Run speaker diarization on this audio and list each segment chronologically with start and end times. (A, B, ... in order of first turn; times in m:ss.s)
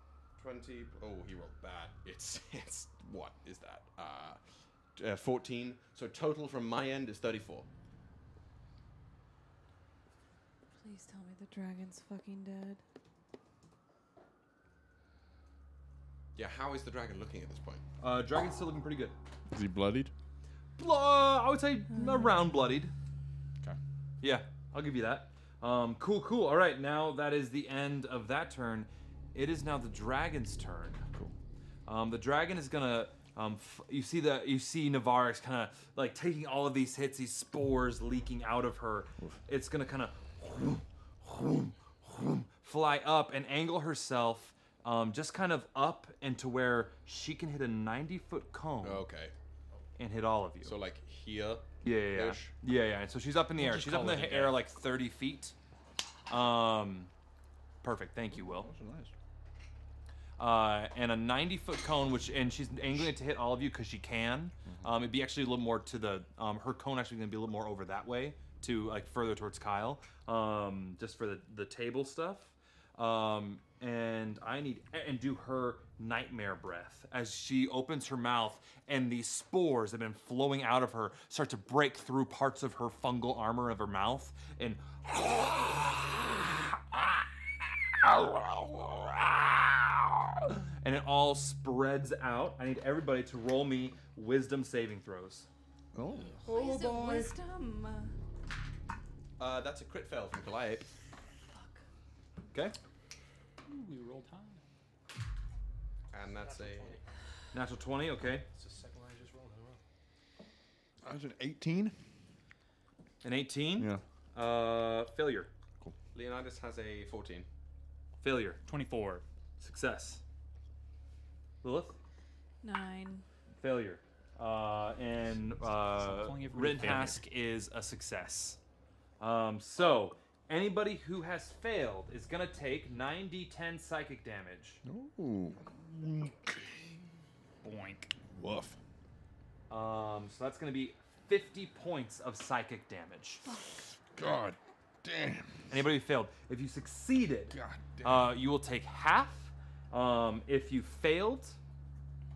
0:00.4-0:04.4 A
0:04.9-0:07.7 A
0:10.8-0:12.8 B
0:16.3-0:17.8 A
0:18.0-0:19.2 C
0:19.5-0:20.1 D
0:20.8-0:22.9 C
0:21.9-0:22.4 B
0:24.2-0:31.0 C
0:31.8-0:49.1 C
0:48.8-0:49.3 A
0:50.0-0:50.8 C
0:50.6-0:52.5 A
0:51.8-0:55.5 C
0:53.6-0:54.6 E
0:56.3-0:57.1 C
0:57.8-0:58.7 C
0:58.3-0:59.1 D
1:00.4-1:26.4 C
1:04.6-1:04.9 D
1:30.8-1:35.5 C
1:35.9-1:37.2 D
1:36.4-1:38.1 B
1:39.4-1:40.9 A
1:43.6-1:44.6 E
1:46.1-1:47.0 A
1:46.1-1:47.0 F
1:47.5-1:48.5 C
1:48.5-1:49.8 F
1:51.0-1:51.9 D
1:53.2-1:55.5 C
1:53.7-1:54.0 D
1:56.1-1:57.5 A
1:58.2-1:58.6 C
1:58.6-1:59.2 E
1:59.6-2:00.2 C
2:01.6-2:02.0 C
2:02.6-2:03.2 B
2:03.6-2:08.6 C
2:05.5-2:07.2 E
2:09.2-2:14.8 C
2:14.8-2:16.9 D
2:17.6-2:18.1 E
2:18.3-2:18.8 D
2:19.7-2:23.4 C
2:24.1-2:25.8 D
2:25.7-2:31.6 C
2:27.5-2:28.4 D